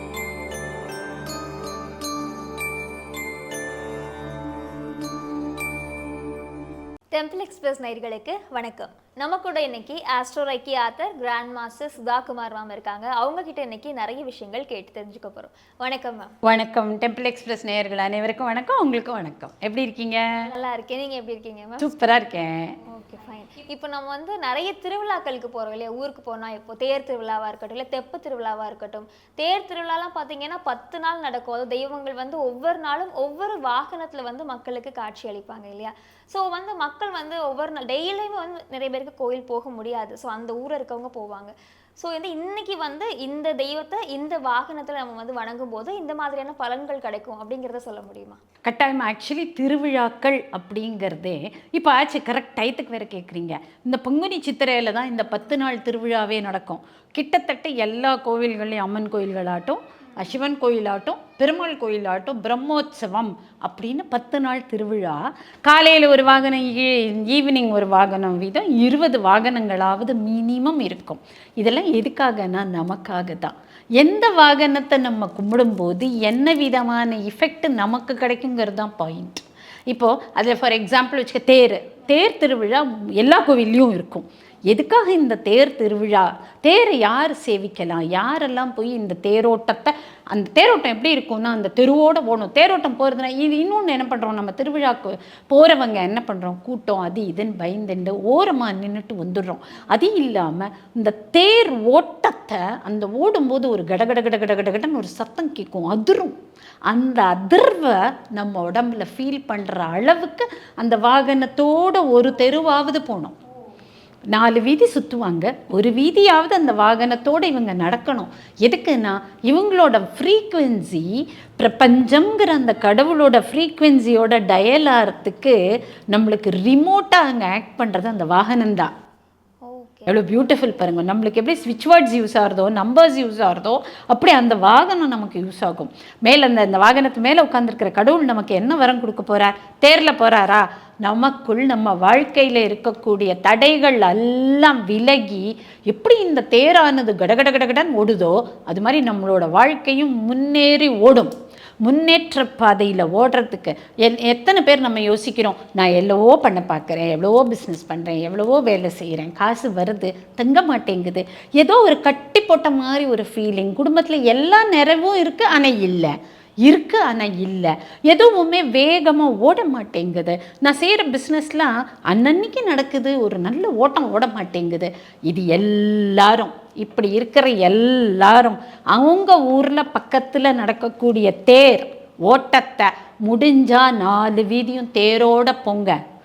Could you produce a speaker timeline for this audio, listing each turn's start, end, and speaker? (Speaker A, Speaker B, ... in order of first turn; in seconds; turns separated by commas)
Speaker A: 7.1-16.4, Speaker B: 16.4-20.5, Speaker A: 20.4-21.9, Speaker B: 21.8-22.8, Speaker A: 22.9-48.4, Speaker B: 48.6-106.3, Speaker B: 106.9-113.4, Speaker B: 114.3-125.6, Speaker B: 126.1-128.9, Speaker A: 129.7-130.2, Speaker B: 130.1-186.0